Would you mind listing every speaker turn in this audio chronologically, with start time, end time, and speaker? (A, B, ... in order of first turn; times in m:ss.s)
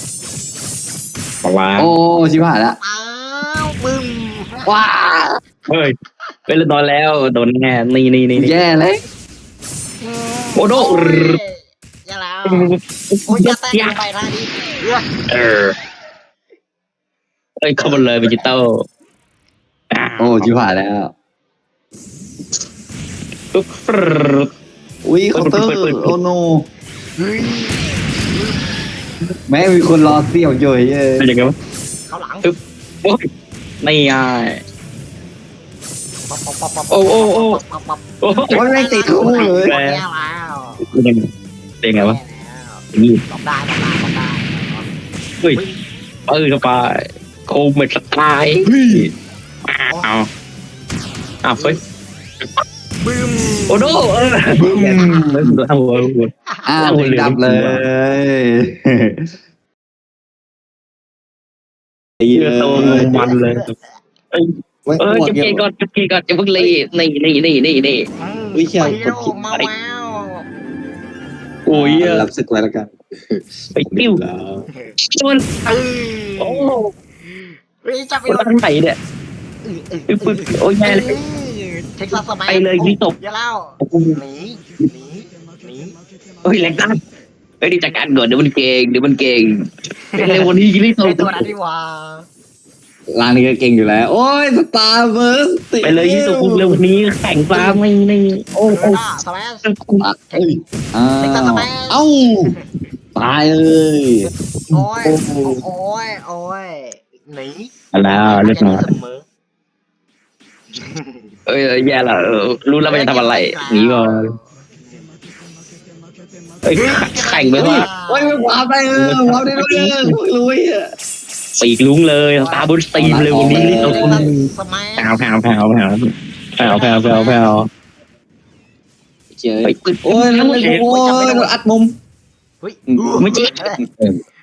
0:01.4-0:01.9 A
0:01.8-0:02.8 B
0:02.8-0:04.7 C
0:04.6-0:05.4 B
0:05.7-0:05.9 A
0:06.5-0:08.5 A
0:08.4-0:09.0 B
0:10.0-0:12.7 C
0:10.6-0:11.4 A
0:12.5-0:14.0 A
0:13.3-0:15.1 C
0:15.3-0:15.8 A
0:17.6-0:18.8 A
0:19.9-0:20.5 A
0:20.2-0:21.1 B
0:23.5-0:24.5 A
0:25.0-0:26.7 B
0:25.4-0:26.2 A
0:27.2-0:28.9 C
0:29.5-0:31.3 B
0:31.2-0:31.5 A
0:32.1-0:32.5 C
0:32.4-0:33.2 A
0:33.8-0:34.6 A
0:36.3-0:40.9 C
0:36.9-0:37.6 A
0:38.2-0:38.6 A
0:38.5-0:39.8 B
0:39.2-0:40.0 A
0:40.8-0:41.3 A
0:41.8-0:42.2 A
0:42.0-0:44.9 C
0:42.9-0:43.2 A
0:45.5-0:45.8 C
0:46.3-0:49.1 A
0:48.6-0:49.1 B
0:49.7-0:50.3 A
0:51.4-0:51.8 A
0:53.0-0:55.3 C
0:53.7-0:57.8 A
0:54.5-0:55.6 B
0:56.5-0:56.7 C
0:56.7-0:59.3 B
1:02.2-1:03.2 B
1:02.3-1:03.7 A
1:02.8-1:03.7 C
1:04.3-1:08.1 A
1:04.9-1:05.6 B
1:08.2-1:10.5 C
1:08.5-1:09.4 B
1:11.7-1:12.3 A
1:11.7-1:14.7 B
1:13.8-1:14.2 A
1:14.7-1:14.9 C
1:15.0-1:15.5 A
1:15.6-1:18.6 C
1:16.4-1:16.9 A
1:18.3-1:19.0 A
1:19.6-1:26.0 C
1:20.1-1:21.2 A
1:22.5-1:23.2 A
1:23.8-1:24.2 A
1:26.4-1:27.0 A
1:27.6-1:29.5 A
1:30.1-1:32.3 C
1:30.2-1:31.5 A
1:33.1-1:36.8 B
1:35.8-1:39.0 A
1:37.5-1:37.8 C
1:38.7-1:39.7 C
1:39.7-1:40.0 A
1:40.0-1:42.5 B
1:41.2-1:42.8 C
1:43.2-1:44.3 B
1:44.7-1:49.2 C
1:44.7-1:45.6 A
1:47.9-1:48.8 A
1:50.7-1:51.3 C
1:51.5-1:54.3 A
1:52.8-1:54.5 C
1:56.6-1:57.9 A
1:56.7-1:58.6 C
1:57.6-2:00.9 B
1:59.0-2:00.2 A
2:01.6-2:04.4 A
2:02.4-2:05.3 C
2:02.9-2:04.3 B
2:05.0-2:06.0 A
2:06.6-2:07.7 A
2:06.6-2:07.6 C
2:09.3-2:12.0 B
2:09.6-2:10.9 A
2:10.7-2:11.5 C
2:12.6-2:13.8 C
2:12.9-2:13.9 B
2:13.2-2:14.2 A